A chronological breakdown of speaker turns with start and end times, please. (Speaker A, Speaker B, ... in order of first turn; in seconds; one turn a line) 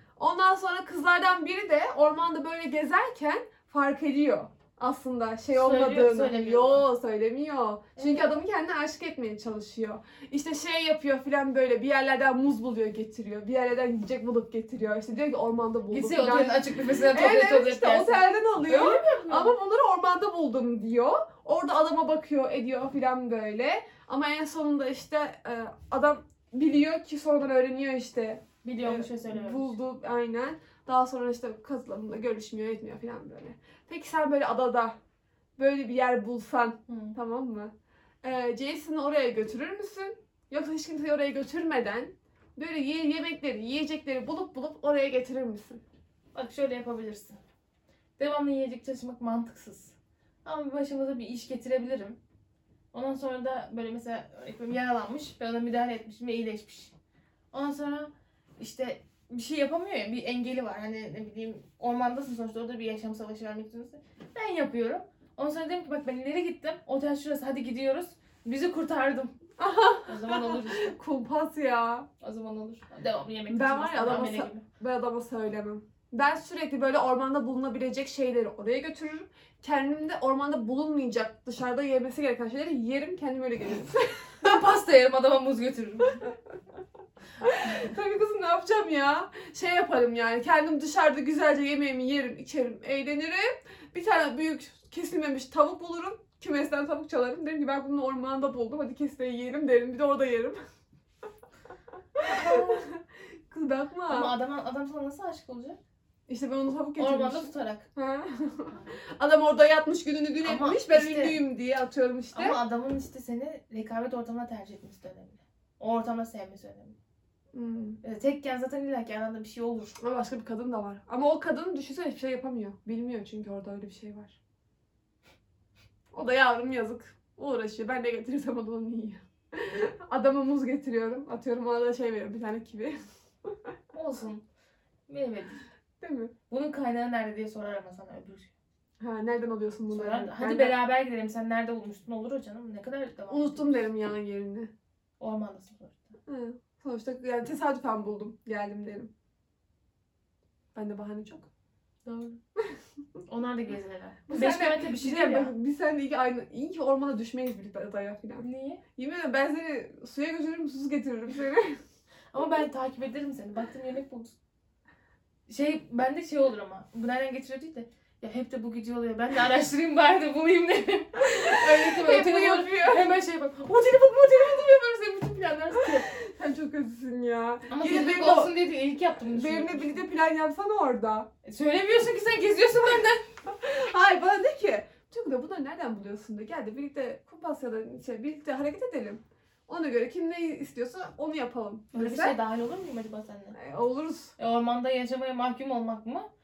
Speaker A: 0.2-35.0
Speaker B: 5.5-6.8
Speaker B: 8.0-8.3
Speaker B: 15.9-19.6
Speaker B: 28.6-29.8
Speaker A: 35.6-37.7
Speaker B: 36.9-37.1
Speaker A: 38.2-45.8
Speaker B: 46.3-47.4
Speaker B: 48.2-52.2
Speaker B: 52.9-56.9
Speaker B: 57.5-69.3
Speaker A: 69.6-72.1
Speaker B: 70.0-70.9
Speaker B: 72.2-74.6
Speaker A: 73.5-84.6
Speaker B: 84.4-86.2
Speaker A: 87.4-100.6
Speaker A: 102.1-104.3
Speaker B: 102.2-102.9
Speaker B: 104.1-105.8
Speaker A: 106.3-112.6
Speaker B: 107.0-107.8
Speaker B: 110.4-111.4
Speaker B: 112.3-117.0
Speaker A: 117.5-118.0
Speaker B: 118.0-120.0
Speaker A: 120.0-124.4
Speaker A: 126.1-133.7
Speaker B: 133.9-134.4
Speaker B: 135.1-135.6
Speaker A: 136.0-136.3
Speaker B: 136.5-138.5
Speaker A: 139.0-140.8
Speaker B: 139.9-143.9
Speaker A: 143.3-144.7
Speaker B: 145.2-146.2
Speaker A: 146.3-149.1
Speaker A: 150.7-151.5
Speaker B: 152.0-152.4
Speaker B: 153.3-155.5
Speaker A: 154.3-158.4
Speaker B: 158.4-158.8
Speaker A: 158.9-161.8
Speaker B: 162.3-164.4
Speaker B: 165.5-176.1
Speaker A: 171.2-173.1
Speaker A: 175.9-178.5
Speaker B: 177.7-179.9
Speaker A: 179.2-181.3
Speaker B: 181.4-183.3
Speaker A: 183.4-192.3
Speaker B: 191.9-193.6
Speaker A: 193.5-194.3
Speaker B: 194.4-196.3